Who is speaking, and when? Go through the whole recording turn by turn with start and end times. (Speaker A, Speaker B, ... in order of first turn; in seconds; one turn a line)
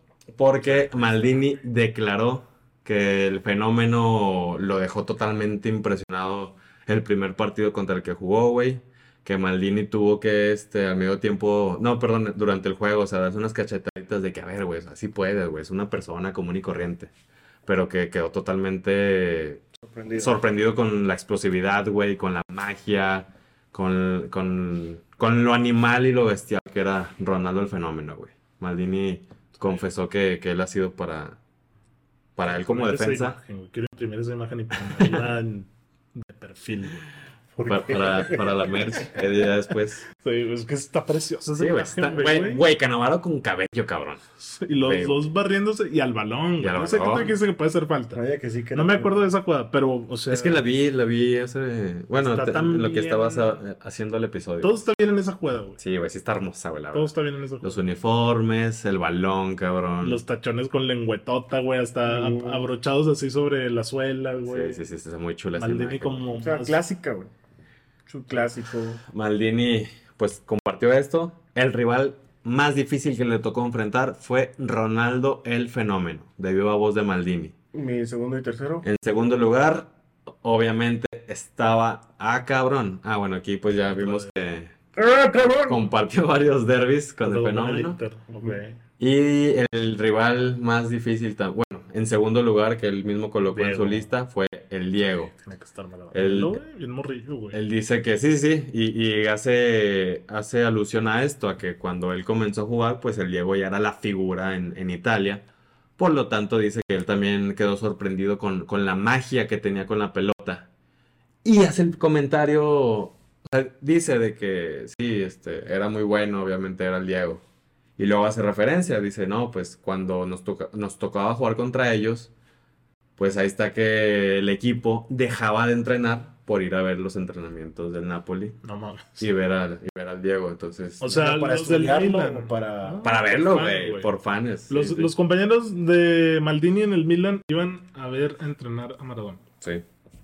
Speaker A: 0.3-17.1
Speaker A: 17.6-19.6
Speaker B: 19.8-20.4
Speaker A: 20.1-31.4
Speaker A: 32.4-33.4
Speaker C: 32.5-37.0
Speaker A: 34.8-35.2
Speaker C: 37.6-38.0
Speaker B: 37.6-38.5
Speaker A: 37.6-40.0
Speaker C: 40.1-42.6
Speaker A: 41.5-44.2
Speaker C: 44.4-48.2
Speaker A: 44.8-45.2
Speaker A: 46.6-47.3
Speaker B: 48.1-49.2
Speaker C: 48.7-50.6
Speaker A: 50.3-54.8
Speaker C: 52.1-53.6
Speaker C: 54.6-55.8
Speaker A: 55.8-60.2
Speaker C: 56.9-57.8
Speaker C: 60.0-64.8
Speaker B: 62.0-62.7
Speaker A: 64.5-66.2
Speaker C: 65.5-66.8
Speaker B: 66.3-67.3
Speaker B: 68.0-69.0
Speaker A: 69.1-77.5
Speaker B: 77.7-78.8
Speaker A: 78.8-79.9
Speaker A: 80.4-84.7
Speaker C: 83.9-84.3
Speaker B: 84.9-85.8
Speaker A: 85.6-88.0
Speaker C: 87.2-88.8
Speaker A: 89.0-95.3
Speaker C: 93.4-94.1
Speaker C: 95.0-97.6
Speaker A: 96.1-96.6
Speaker A: 97.5-105.4
Speaker A: 106.0-110.7
Speaker A: 111.4-117.4
Speaker A: 118.0-122.3
Speaker A: 123.2-128.6
Speaker C: 128.6-129.3
Speaker A: 129.2-131.1
Speaker C: 131.0-134.1
Speaker B: 131.1-133.0
Speaker A: 133.0-135.1
Speaker C: 134.7-139.4